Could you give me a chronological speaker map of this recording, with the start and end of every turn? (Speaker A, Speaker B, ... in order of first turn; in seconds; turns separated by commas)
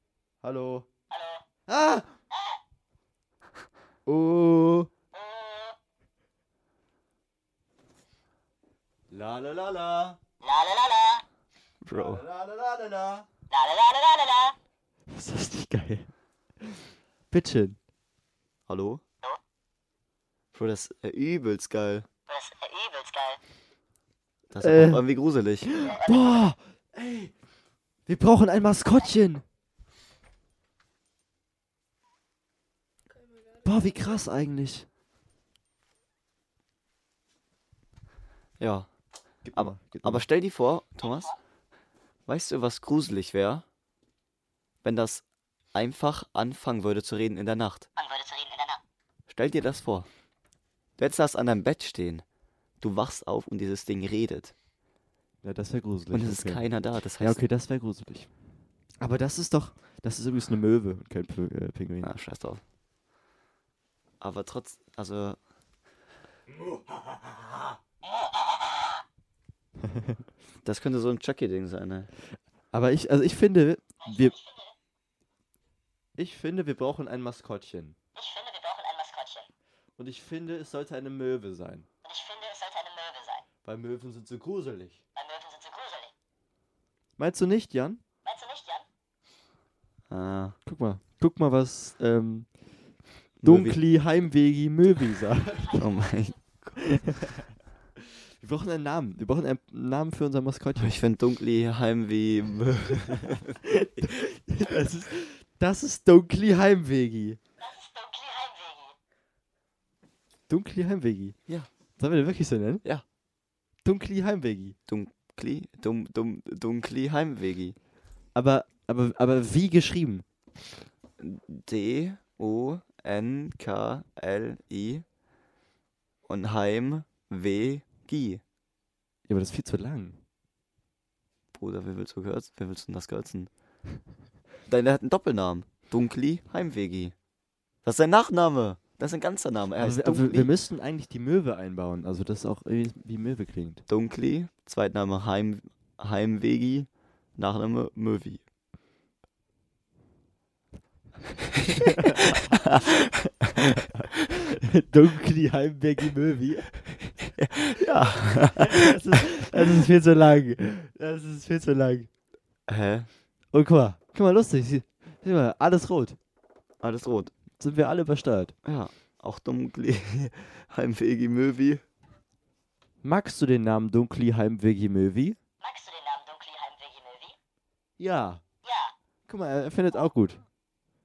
Speaker A: 0.4-0.9, Speaker B: 1.1-1.4, Speaker A: 1.7-2.1, Speaker A: 4.1-4.9, Speaker B: 5.2-5.7, Speaker A: 9.1-10.2, Speaker B: 10.4-11.2, Speaker C: 11.8-12.2, Speaker A: 11.9-13.3, Speaker B: 13.5-14.6, Speaker A: 15.1-17.8, Speaker C: 18.7-19.0, Speaker C: 20.5-22.1, Speaker B: 22.3-23.4, Speaker C: 24.5-25.7, Speaker A: 24.6-25.1, Speaker A: 25.6-27.3, Speaker A: 28.1-29.4, Speaker A: 33.5-34.9, Speaker C: 38.6-38.9, Speaker A: 39.4-40.2, Speaker C: 39.5-41.3, Speaker B: 41.0-41.3, Speaker C: 42.3-43.6, Speaker C: 44.8-47.9, Speaker B: 48.0-48.8, Speaker C: 49.3-50.1, Speaker C: 51.0-52.2, Speaker C: 52.8-54.5, Speaker A: 55.4-58.3, Speaker C: 56.1-57.4, Speaker A: 59.0-62.1, Speaker C: 62.0-62.6, Speaker C: 64.2-65.4, Speaker C: 70.6-72.1, Speaker A: 72.7-74.4, Speaker B: 74.0-74.7, Speaker A: 76.2-78.0, Speaker B: 78.2-79.5, Speaker A: 80.0-81.9, Speaker B: 82.0-83.5, Speaker A: 83.6-85.0, Speaker B: 85.2-86.1, Speaker A: 87.2-88.0, Speaker B: 88.2-88.8, Speaker C: 90.1-90.6, Speaker A: 90.7-92.5, Speaker C: 93.4-93.8, Speaker A: 93.4-95.8, Speaker C: 95.8-96.7, Speaker A: 96.8-97.4, Speaker A: 98.3-101.0, Speaker C: 100.8-103.6, Speaker A: 103.7-107.4, Speaker B: 107.6-108.9, Speaker A: 110.5-111.4, Speaker A: 112.0-112.8, Speaker A: 113.8-114.8, Speaker C: 114.9-117.8, Speaker A: 118.3-120.3, Speaker C: 121.2-125.0, Speaker C: 126.2-128.4, Speaker A: 129.3-130.2, Speaker C: 131.5-133.5, Speaker C: 134.7-137.2, Speaker C: 137.8-140.5, Speaker A: 139.8-143.8, Speaker C: 143.9-148.4, Speaker A: 154.6-157.1, Speaker C: 157.4-158.8, Speaker A: 158.3-162.1, Speaker C: 162.7-163.1, Speaker A: 163.5-166.2, Speaker C: 166.8-167.3, Speaker A: 167.6-168.6, Speaker C: 168.7-171.8, Speaker A: 173.0-175.4, Speaker B: 175.6-177.3, Speaker A: 178.0-178.4, Speaker B: 178.6-178.9, Speaker A: 179.3-180.4